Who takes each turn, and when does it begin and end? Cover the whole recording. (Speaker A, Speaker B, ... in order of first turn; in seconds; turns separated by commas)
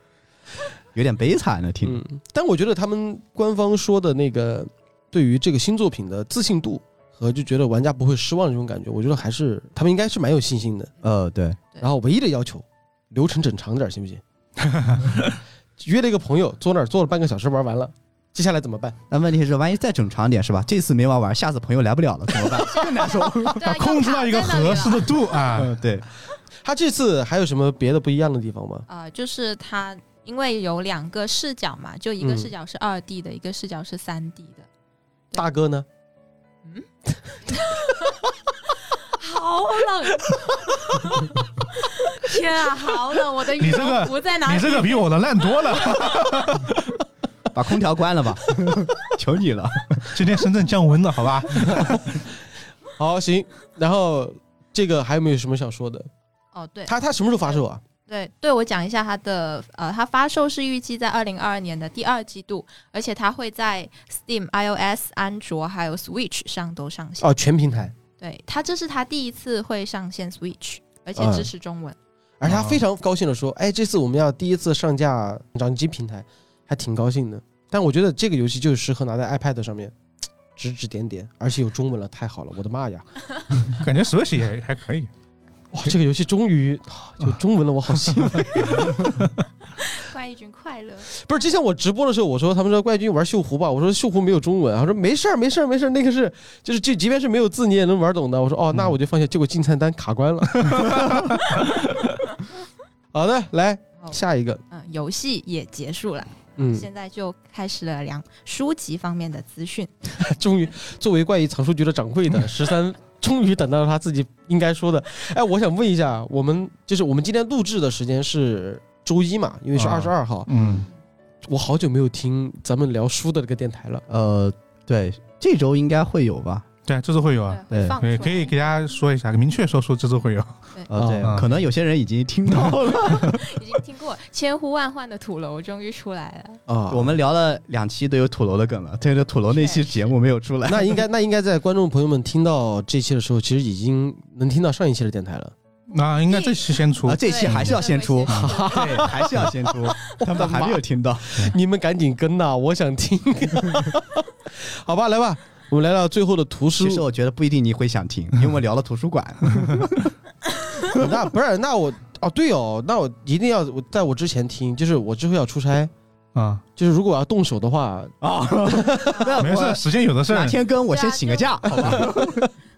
Speaker A: 0.9-2.0, Speaker B: 1.8-10.9, Speaker A: 11.0-11.6, Speaker B: 11.8-14.2, Speaker C: 14.7-15.2, Speaker B: 15.8-18.9, Speaker A: 19.1-23.6, Speaker D: 22.5-25.4, Speaker C: 23.3-25.8, Speaker A: 25.5-26.0, Speaker B: 26.6-28.9, Speaker D: 28.9-34.7, Speaker B: 32.2-32.5, Speaker B: 35.3-35.9, Speaker D: 37.5-38.3, Speaker D: 38.8-45.1, Speaker C: 43.5-46.8, Speaker D: 45.6-46.1, Speaker A: 47.5-50.2, Speaker C: 50.1-52.0, Speaker B: 51.6-52.2, Speaker B: 53.0-56.1, Speaker D: 56.5-67.3, Speaker B: 56.9-57.8, Speaker B: 67.2-67.9, Speaker D: 68.2-72.0, Speaker B: 71.2-71.5, Speaker B: 72.4-79.9, Speaker C: 72.4-72.8, Speaker B: 80.5-83.0, Speaker C: 83.6-85.1, Speaker B: 85.7-89.1, Speaker C: 88.1-89.3, Speaker D: 89.8-91.1, Speaker B: 91.1-101.4, Speaker B: 103.1-104.6, Speaker D: 104.7-109.9, Speaker B: 106.6-106.9, Speaker B: 110.2-120.5, Speaker C: 119.7-120.8, Speaker B: 121.4-124.0, Speaker A: 124.1-126.7, Speaker C: 126.8-130.5, Speaker D: 127.5-128.5, Speaker A: 127.7-128.0, Speaker A: 130.9-133.5, Speaker B: 130.9-131.4, Speaker C: 131.2-131.5, Speaker D: 132.9-136.6, Speaker B: 136.7-137.1, Speaker A: 136.9-141.0, Speaker D: 139.5-140.1, Speaker B: 140.7-145.5, Speaker C: 145.9-148.5, Speaker D: 146.3-149.2, Speaker A: 147.0-151.5, Speaker B: 148.3-157.0, Speaker A: 156.8-160.1, Speaker B: 160.9-165.9, Speaker C: 166.3-166.6, Speaker B: 166.8-169.2, Speaker A: 168.2-172.4, Speaker D: 169.1-169.4, Speaker C: 169.4-170.6, Speaker D: 170.9-171.7, Speaker B: 171.7-172.5